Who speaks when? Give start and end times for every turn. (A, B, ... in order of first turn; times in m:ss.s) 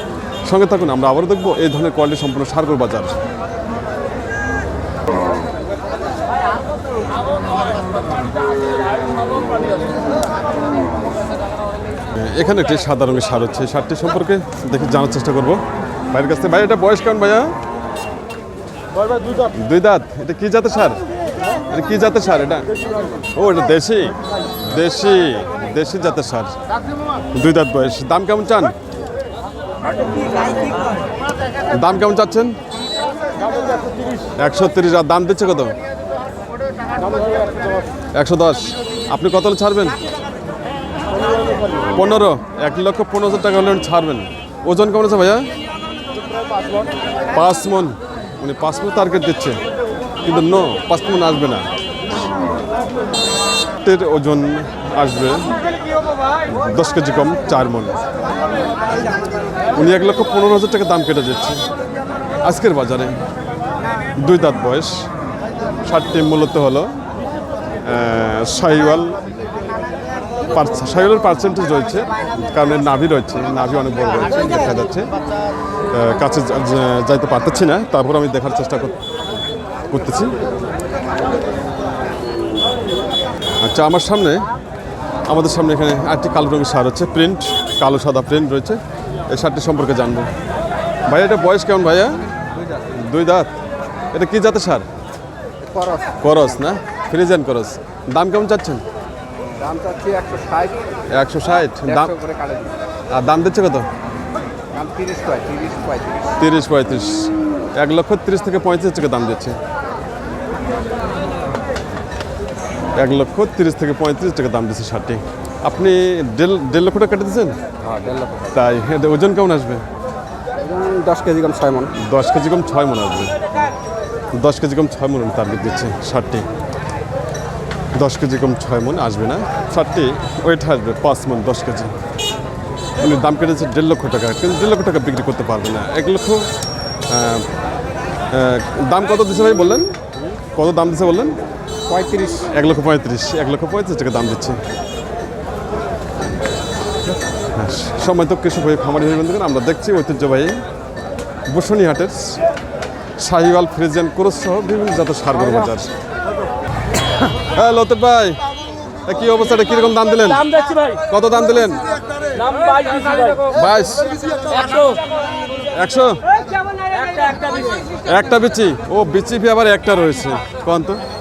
0:00.4-0:03.2 A
0:07.4-0:10.2 B
0:12.2-0:17.5 A
0:19.4-0:21.0 A
0:21.7-0:22.7 A
0:23.3-0:26.6 A
0:27.3-0:28.8 A
0:31.7-0:32.6 A
0:34.4-0:35.8 A
0:37.1-0:37.7 B
0:38.1-0:40.0 A
0:41.3-0:41.6 B
0:42.0-0:45.5 A
0:47.3-0:49.6 A
0:50.2-0:51.7 A
0:53.8-0:55.6 A
0:56.5-0:58.0 A
0:59.8-1:01.6 A
1:02.4-1:03.2 A
1:04.2-1:05.0 A
1:05.8-1:06.9 A
1:07.8-1:09.2 A
1:10.5-1:15.1 A
1:15.9-1:19.0 A
1:19.9-1:20.4 A
1:23.6-1:24.5 A
1:25.3-1:30.3 A
1:31.1-1:32.2 A
1:32.9-1:33.5 A
1:34.1-1:34.9 A
1:35.6-1:36.5 C
1:36.2-1:38.8 A
1:39.6-1:40.8 C
1:41.1-1:42.1 A
1:41.8-1:42.8 C
1:43.1-1:43.9 A
1:44.7-1:46.4 C
1:46.4-1:49.6 A
1:53.0-1:57.6 A
1:57.8-1:58.5 C
1:58.5-1:59.8 A
2:00.6-2:01.9 C
2:02.0-2:03.4 A
2:04.4-2:06.5 A
2:08.0-2:11.9 A
2:13.0-2:16.5 A
2:17.1-2:17.5 A
2:18.3-2:19.9 A
2:20.6-2:21.4 A
2:21.9-2:22.5 C
2:22.5-2:24.6 A
2:27.6-2:30.6 A
2:31.5-2:32.4 A
2:33.2-2:35.9 A
2:37.2-2:38.4 A
2:39.1-2:40.5 A
2:40.2-2:41.0 B
2:41.1-2:41.9 A
2:42.3-2:43.5 B
2:43.5-2:44.1 A
2:44.5-2:45.0 B
2:45.7-2:46.2 A
2:46.6-2:48.0 B
2:48.1-2:51.0 A